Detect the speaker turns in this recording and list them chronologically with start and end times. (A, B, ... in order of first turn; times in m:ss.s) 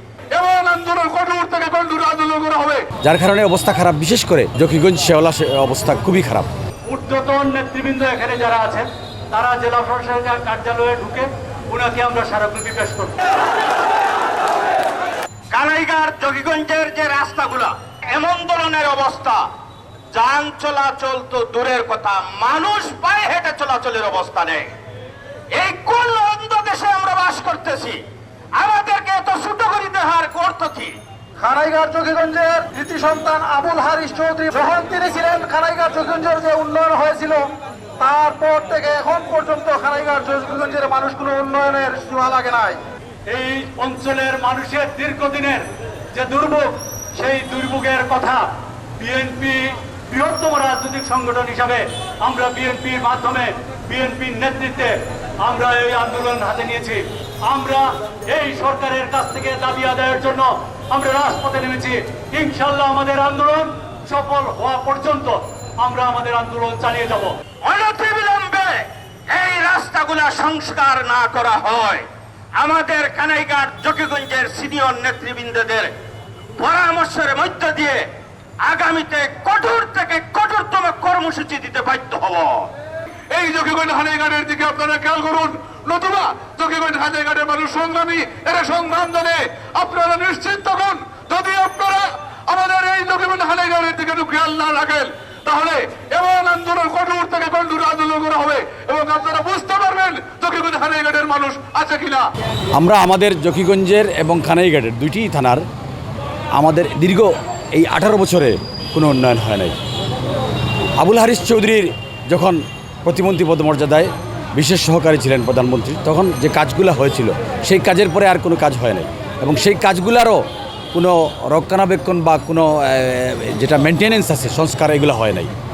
0:00.3-0:02.8 A
0:03.0-0:06.5 B
0:06.9-0:13.3 C
0:15.5-0:19.4 D
0:20.1-0:24.7 D
0:25.5-0:28.0 D
0:28.6-0:31.0 D
0:31.4-0:37.4 E
0:38.0-0:42.8 E
0:43.3-0:48.4 C
0:49.0-1:07.3 C
1:07.6-1:12.1 D
1:12.6-1:15.9 D
1:16.6-1:18.0 D
1:18.6-1:22.7 D
1:23.3-1:42.2 A
1:42.7-1:45.6 B
1:46.6-1:49.8 B
1:51.0-2:05.5 B